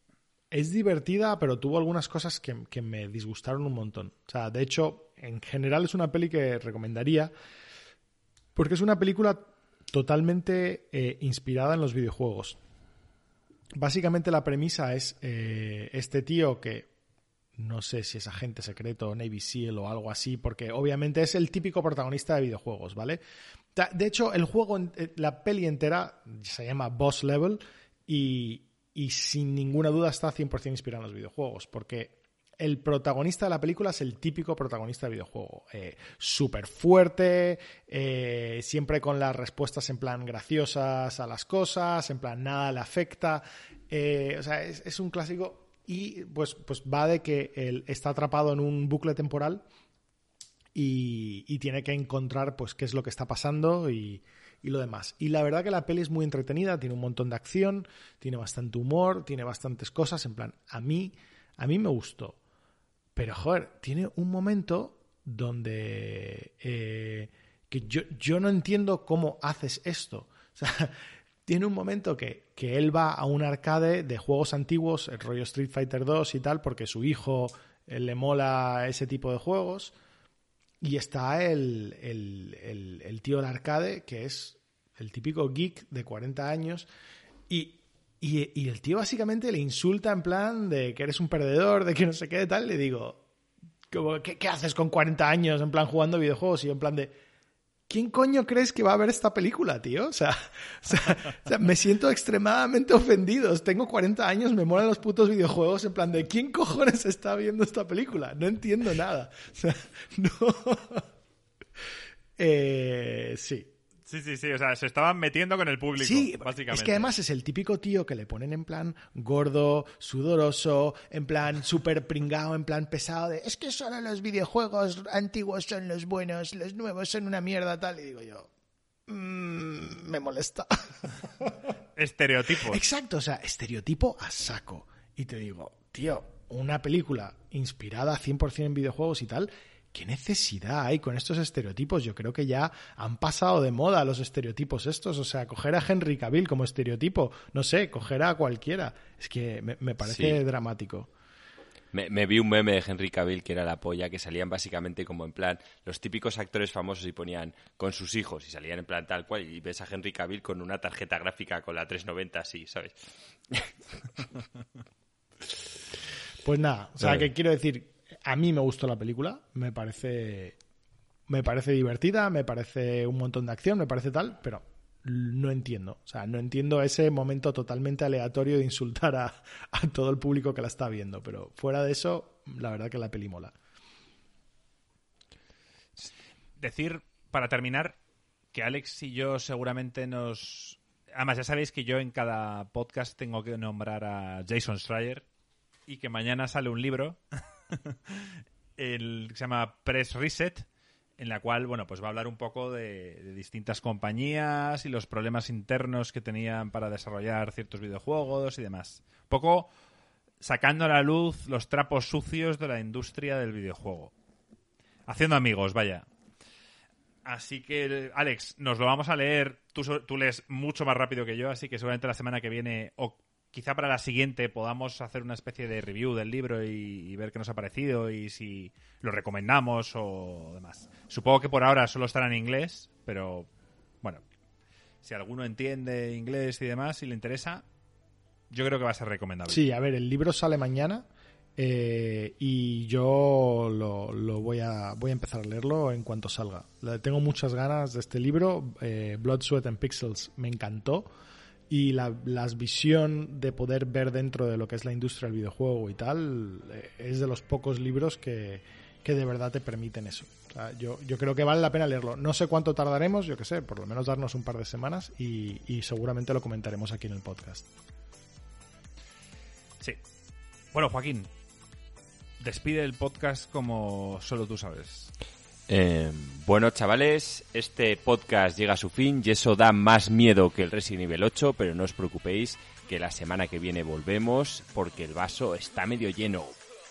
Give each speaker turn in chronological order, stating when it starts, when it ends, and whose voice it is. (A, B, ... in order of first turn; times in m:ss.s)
0:00.5-0:07.3 A
0:08.6-0:12.6 A
0:13.8-0:16.9 A
0:17.6-0:23.2 A
0:23.7-0:49.6 A
0:50.7-1:02.4 A
1:03.2-1:19.9 A
1:20.8-1:26.9 A
1:27.5-1:33.2 A
1:33.9-1:37.1 A
1:37.9-1:51.1 A
1:52.4-1:53.7 A
1:54.1-1:57.1 B
1:56.0-2:08.5 A
2:09.1-2:11.6 A
2:12.0-2:12.8 B
2:12.6-2:31.1 A
2:30.0-2:30.4 C
2:31.9-2:43.0 C
2:46.4-2:50.6 A
2:47.0-2:47.3 B
2:51.3-3:03.5 A
3:06.0-3:08.0 B
3:08.5-3:15.2 B
3:15.9-3:20.6 B
3:21.2-3:29.7 B
3:30.4-3:34.1 B
3:35.1-3:36.0 B
3:37.2-3:53.5 B
3:55.0-3:57.6 B
3:58.5-3:59.6 B
3:59.5-4:11.1 A
4:11.7-4:27.7 A
4:30.7-4:31.3 B
4:32.4-4:35.1 B
4:35.7-4:46.6 C